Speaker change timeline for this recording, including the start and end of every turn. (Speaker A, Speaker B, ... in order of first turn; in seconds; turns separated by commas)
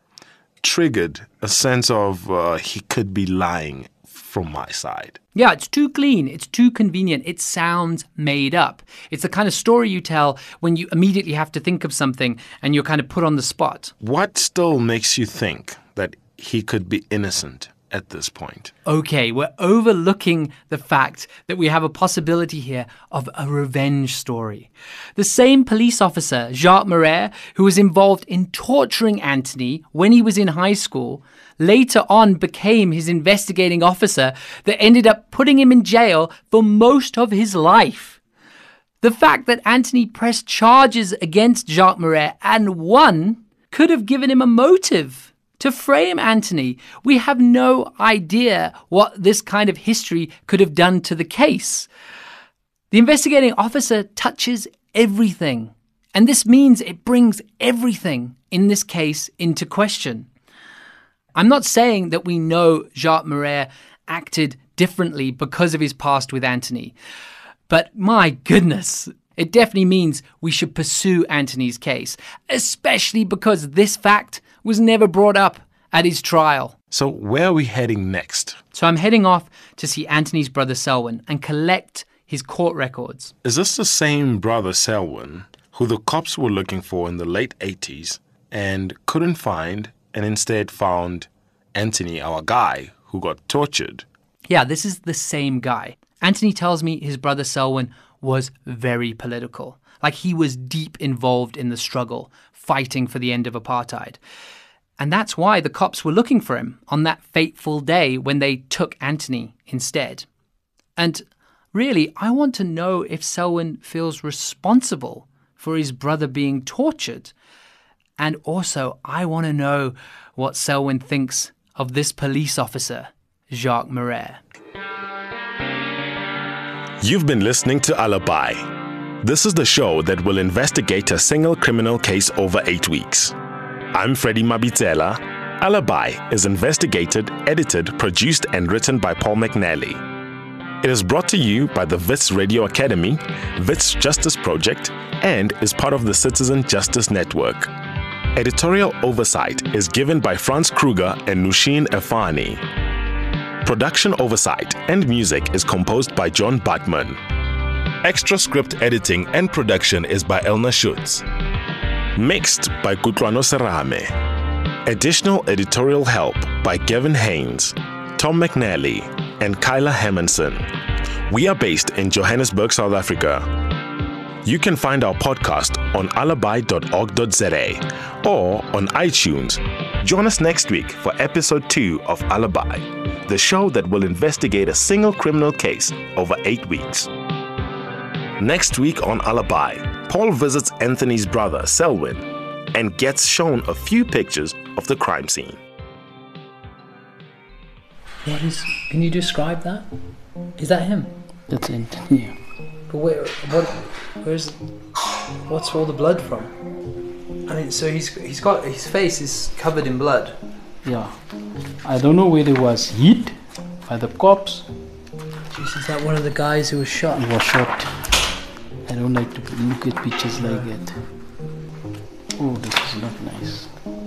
Speaker A: 0.6-5.2, Speaker B: 5.3-13.9, Speaker A: 14.0-18.7, Speaker B: 18.8-38.2, Speaker B: 39.0-51.9, Speaker B: 52.9-60.3, Speaker B: 61.3-66.9, Speaker B: 67.7-76.7, Speaker A: 76.9-78.6, Speaker B: 78.7-83.3, Speaker A: 83.4-94.0, Speaker B: 94.5-104.2, Speaker B: 105.0-110.2, Speaker B: 111.0-117.3, Speaker B: 118.2-124.4, Speaker A: 127.0-128.7, Speaker A: 129.2-133.3, Speaker A: 133.9-140.0, Speaker A: 140.8-147.7, Speaker A: 148.3-152.6, Speaker A: 153.6-157.2, Speaker A: 158.0-161.2, Speaker A: 162.1-164.1, Speaker A: 164.8-170.7, Speaker A: 171.3-173.5, Speaker A: 174.4-187.1, Speaker A: 188.4-195.6, Speaker B: 198.2-199.9, Speaker B: 200.6-201.1, Speaker C: 201.5-202.3, Speaker B: 202.9-204.6, Speaker B: 205.4-206.5, Speaker B: 207.4-210.3, Speaker C: 210.8-211.2, Speaker C: 211.8-214.7, Speaker B: 215.5-217.2, Speaker C: 217.1-217.9, Speaker C: 218.9-221.0, Speaker B: 220.4-220.7, Speaker C: 222.4-223.8